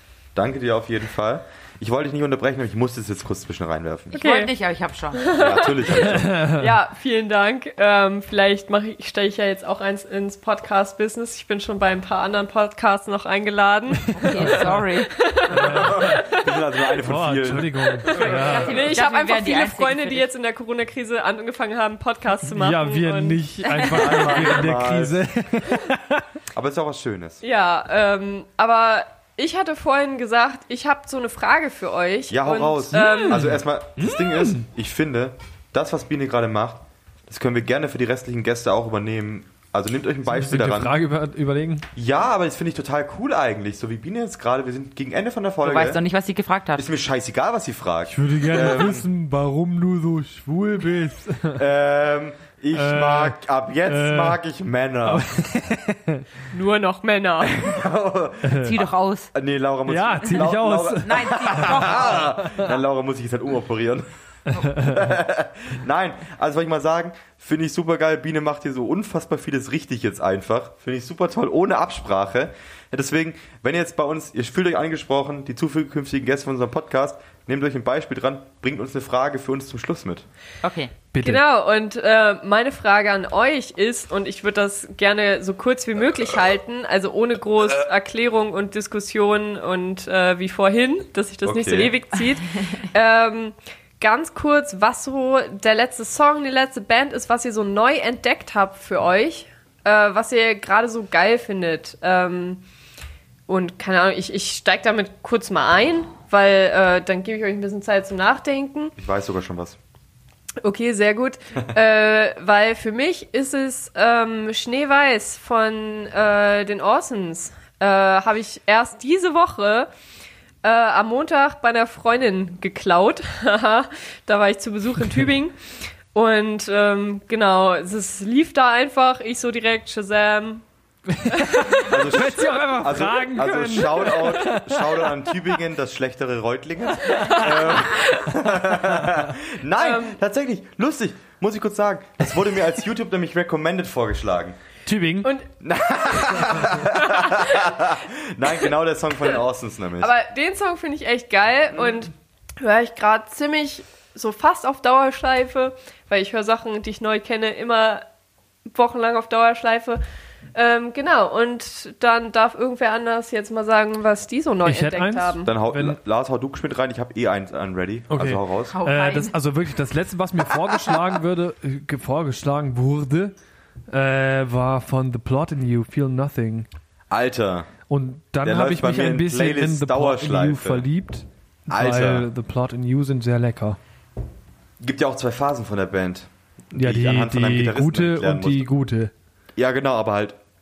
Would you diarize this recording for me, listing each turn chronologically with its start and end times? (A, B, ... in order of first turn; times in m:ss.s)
0:00.4-0:04.2 A
0:04.1-0:05.4 B
0:04.1-0:04.5 C
0:05.1-0:16.6 C
0:05.3-0:06.4 A
0:06.1-0:06.7 D
0:14.1-0:15.1 B
0:14.2-0:14.8 D
0:15.5-0:16.2 D
0:15.5-0:18.6 A
0:17.0-0:18.9 D
0:18.1-0:23.4 C
0:18.3-0:20.3 B
0:22.4-0:26.3 D
0:23.9-0:25.2 A
0:26.5-0:27.4 A
0:27.4-0:33.6 C
0:32.3-0:40.9 A
0:32.9-0:34.7 D
0:40.3-0:41.9 D
0:42.0-0:46.0 A
0:45.6-0:46.9 B
0:46.8-0:49.1 A
0:48.1-0:51.6 D
0:51.6-0:55.3 A
0:52.7-0:54.4 D
0:55.0-0:56.3 D
0:56.5-0:57.7 C
0:57.4-1:20.3 A
0:58.4-0:58.8 D
0:58.6-0:59.3 B
0:59.9-1:02.8 D
1:01.0-1:02.4 B
1:04.6-1:05.0 D
1:20.6-1:20.9 B
1:21.1-1:21.4 D
1:21.2-1:42.6 C
1:31.4-1:32.0 A
1:43.5-1:49.0 C
1:49.0-1:49.8 A
1:50.6-1:59.9 C
2:00.6-2:10.6 C
2:11.1-2:15.3 D
2:11.3-2:11.9 C
2:11.8-2:24.6 A
2:17.1-2:18.3 C
2:19.8-2:20.2 C
2:24.8-2:25.3 D
2:25.2-2:25.5 C
2:25.6-2:30.1 A
2:26.1-2:27.7 C
2:30.0-2:38.0 C
2:38.7-2:40.0 C
2:40.6-2:45.5 C
2:44.6-2:46.0 D
2:45.4-2:48.8 A
2:48.1-2:53.4 D
2:48.7-2:49.4 B
2:53.9-2:56.7 D
2:57.1-2:57.7 A
2:57.9-3:03.8 D
2:58.4-3:00.9 A
3:01.7-3:02.3 A
3:04.8-3:08.7 A
3:06.7-3:09.1 D
3:09.6-3:10.4 A